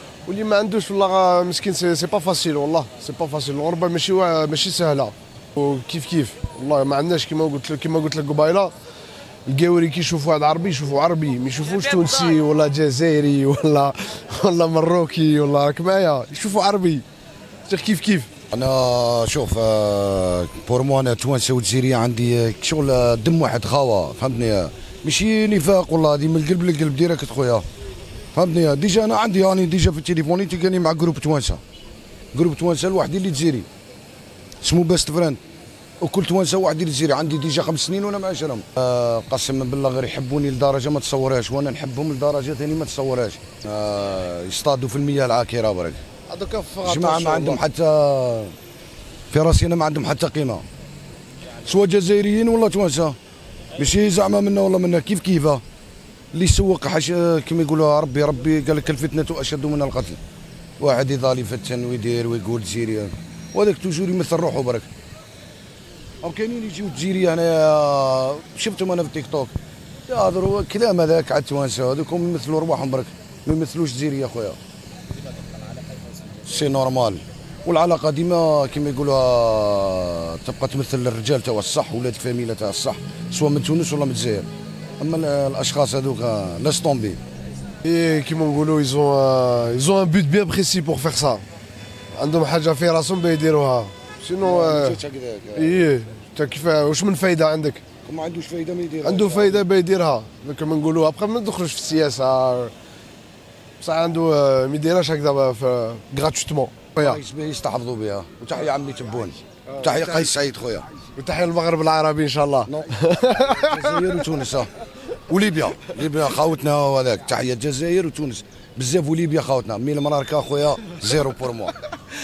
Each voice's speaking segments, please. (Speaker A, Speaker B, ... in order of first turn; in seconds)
Speaker A: 0.3-8.7, 9.5-17.0, 17.7-18.3, 46.3-47.6, 87.8-91.4, 92.2-95.0, 95.5-97.8, 99.0-102.7, 103.8-107.2, 109.7-110.3, 111.2-114.2
Speaker B: 18.5-27.6, 28.3-31.6, 32.3-33.7, 34.6-35.4, 36.0-46.0, 46.8-48.5, 49.3-50.6, 51.6-53.1, 53.8-55.6, 56.3-60.2, 60.8-64.9, 66.2-69.5, 70.1-74.6, 76.4-84.5, 85.0-87.2, 94.4-95.9, 98.0-99.6, 107.0-110.9, 112.7-114.7, 115.3-121.8